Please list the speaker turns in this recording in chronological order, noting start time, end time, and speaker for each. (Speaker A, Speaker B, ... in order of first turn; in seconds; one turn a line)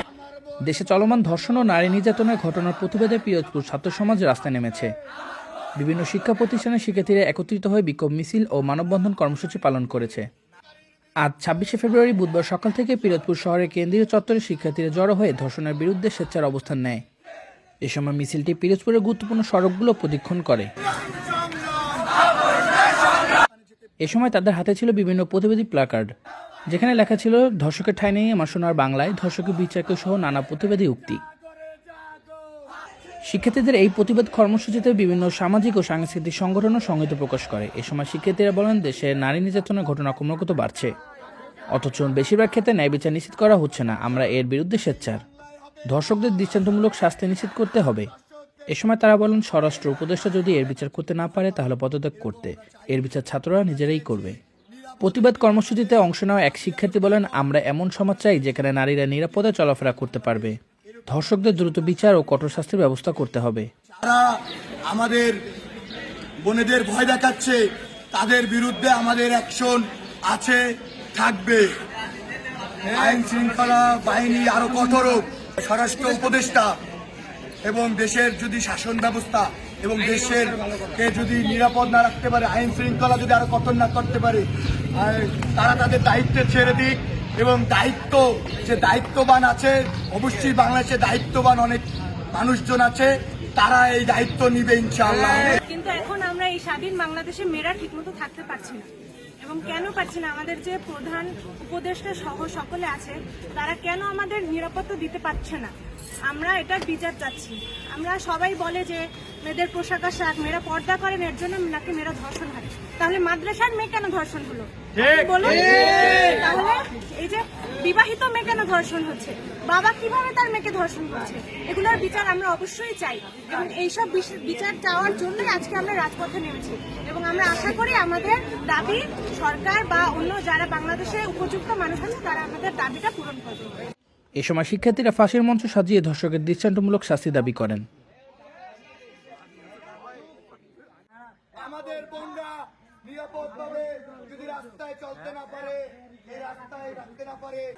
Speaker A: 0.6-4.9
Speaker A: 5.8-10.2
Speaker A: 11.2-17.0
Speaker A: 17.9-20.7
Speaker B: 21.5-22.0
Speaker A: 24.0-26.1
Speaker A: 26.7-31.2
Speaker A: 33.3-40.9
Speaker A: 41.7-45.2
Speaker A: 45.9-48.1
Speaker A: 48.7-54.4
Speaker A: 55.0-60.5
Speaker A: 61.1-63.7
Speaker B: 64.0-64.3
Speaker B: 64.9-65.3
Speaker B: 66.4-67.6
Speaker B: 68.1-70.6
Speaker B: 71.1-71.7
Speaker B: 72.9-76.7
Speaker B: 77.7-95.6
Speaker C: 95.5-98.9
Speaker C: 99.4-105.7
Speaker C: 106.3-133.8
Speaker A: 134.4-137.8
Speaker B: 141.6-147.6